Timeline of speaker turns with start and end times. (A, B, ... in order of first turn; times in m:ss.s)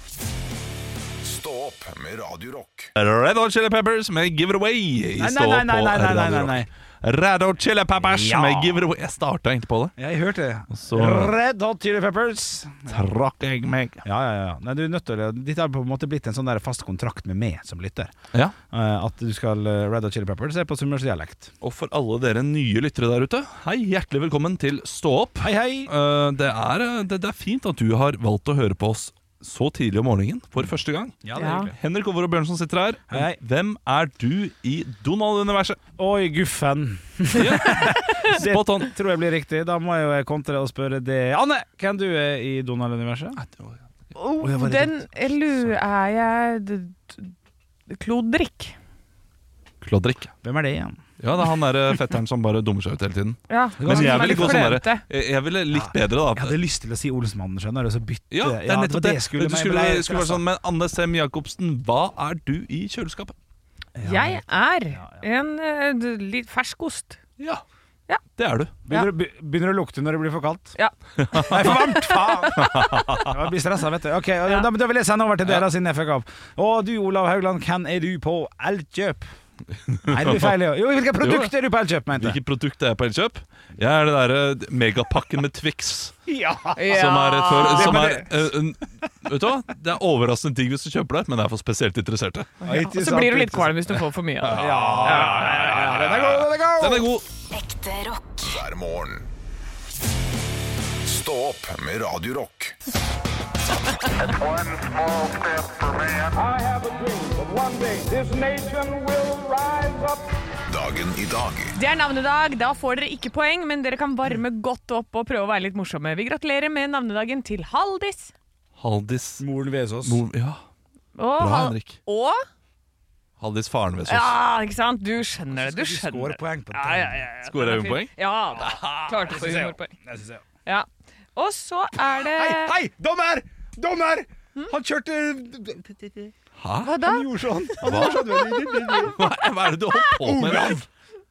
0:01.2-0:02.9 A
0:03.0-0:10.0 B
0:05.2-0:06.7 C
0:08.0-0:08.9 C
0:10.0-0:13.0 C
0:10.7-0:11.3 B
0:12.9-0:14.0 B
0:14.0-0:18.1 C
0:18.7-0:21.5 C
0:21.6-0:31.2 B
0:25.4-0:25.9 C
0:31.2-0:31.8 C
0:31.4-0:31.7 D
0:31.7-0:35.8 B
0:33.1-0:33.4 C
0:36.0-0:43.4 C
0:37.3-0:38.9 B
0:43.4-0:43.8 B
0:44.2-0:47.4 D
0:44.4-0:45.7 C
0:47.9-0:48.8 D
0:49.8-0:50.3 B
0:50.4-0:51.0 C
0:51.2-0:56.6 B
0:53.5-0:55.0 D
0:53.8-0:54.8 C
0:55.7-1:00.4 C
0:58.3-1:03.3 B
1:04.0-1:05.3 C
1:04.0-1:07.2 D
1:08.4-1:08.8 B
1:08.9-1:10.8 C
1:10.8-1:13.2 D
1:11.2-1:11.7 B
1:11.3-1:19.3 C
1:12.5-1:13.3 B
1:19.9-1:20.6 B
1:20.1-1:22.4 C
1:21.2-1:21.5 B
1:22.1-1:26.2 B
1:26.3-1:28.5 C
1:26.8-1:28.1 D
1:26.9-1:32.6 B
1:32.6-1:33.9 C
1:32.6-1:35.4 D
1:34.4-1:37.2 B
1:34.5-1:37.1 C
1:37.5-1:39.3 A
1:40.9-1:42.8 A
1:44.5-1:46.4 A
1:46.4-1:50.1 E
1:50.7-1:51.8 A
1:51.8-1:58.3 D
1:58.8-1:59.4 B
1:59.4-2:00.2 C
2:00.0-2:00.6 B
2:01.2-2:02.4 D
2:01.4-2:02.0 B
2:03.4-2:04.4 B
2:04.1-2:09.9 D
2:05.5-2:07.3 C
2:07.4-2:08.9 B
2:08.7-2:10.4 C
2:10.7-2:12.7 D
2:12.3-2:16.3 C
2:16.6-2:17.0 B
2:16.8-2:17.3 D
2:17.0-2:19.2 C
2:17.8-2:20.8 B
2:17.9-2:19.1 D
2:20.2-2:20.9 C